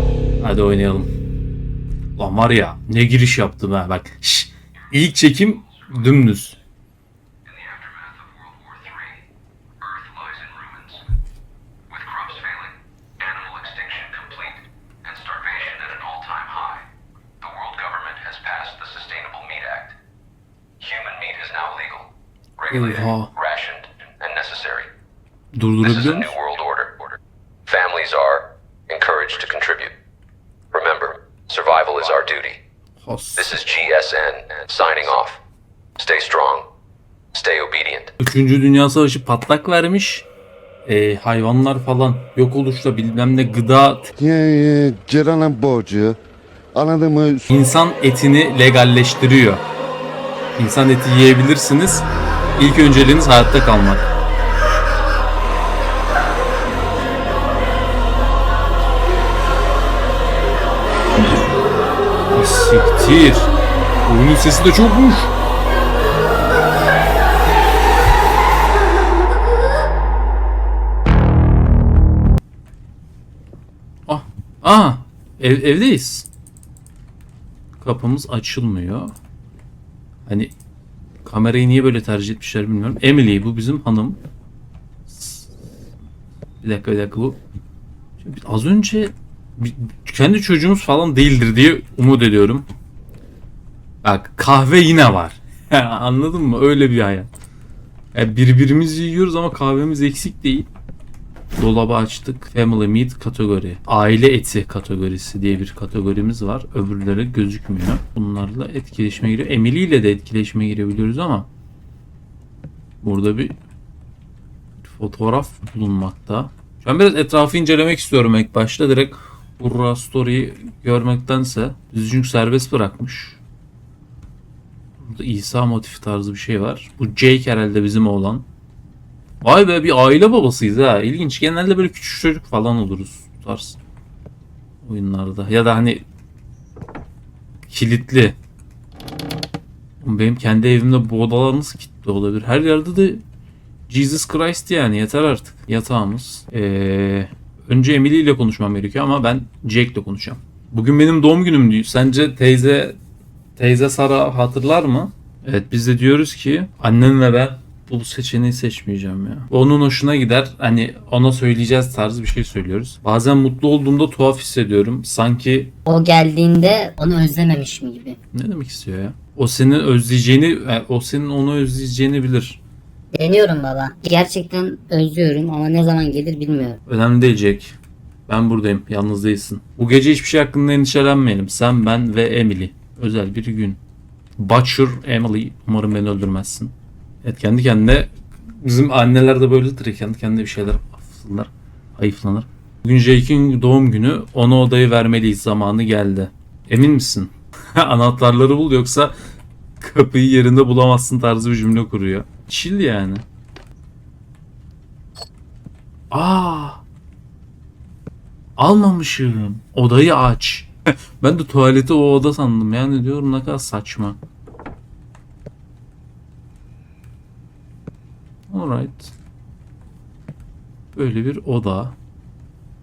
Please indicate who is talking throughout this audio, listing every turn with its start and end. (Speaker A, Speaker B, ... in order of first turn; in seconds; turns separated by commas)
Speaker A: 0.4-1.1, Speaker A: 2.2-6.6, Speaker B: 7.5-9.2, Speaker B: 9.8-11.0, Speaker B: 11.9-16.9, Speaker B: 17.4-20.0, Speaker B: 20.8-24.9, Speaker A: 22.7-23.3, Speaker A: 25.5-26.3, Speaker B: 25.8-29.9, Speaker B: 30.7-32.6, Speaker A: 33.0-33.5, Speaker B: 33.4-35.4, Speaker B: 36.0-36.7, Speaker B: 37.3-38.1, Speaker A: 38.2-40.3, Speaker A: 40.8-44.1, Speaker C: 44.2-46.2, Speaker C: 46.7-47.5, Speaker A: 47.5-49.6, Speaker A: 50.6-52.1, Speaker A: 52.6-54.0, Speaker A: 62.3-63.5, Speaker A: 64.0-65.3, Speaker A: 74.1-76.3, Speaker A: 77.8-79.1, Speaker A: 80.3-80.5, Speaker A: 81.2-84.2, Speaker A: 85.1-85.5, Speaker A: 86.6-87.4, Speaker A: 88.2-92.7, Speaker A: 94.0-97.3, Speaker A: 98.1-100.7, Speaker A: 101.6-111.5, Speaker A: 113.0-113.5, Speaker A: 114.8-123.4, Speaker A: 125.0-128.5, Speaker A: 129.4-133.8, Speaker A: 134.8-136.0, Speaker A: 137.7-138.4, Speaker A: 140.0-143.2, Speaker A: 143.9-153.0, Speaker A: 153.6-165.7, Speaker D: 165.8-168.2, Speaker A: 168.3-172.6, Speaker D: 173.2-176.8, Speaker A: 176.8-177.8, Speaker A: 178.3-183.8, Speaker A: 184.4-199.2, Speaker A: 199.8-203.2, Speaker A: 206.1-206.8, Speaker A: 208.6-214.2, Speaker A: 218.5-219.1, Speaker A: 220.9-222.0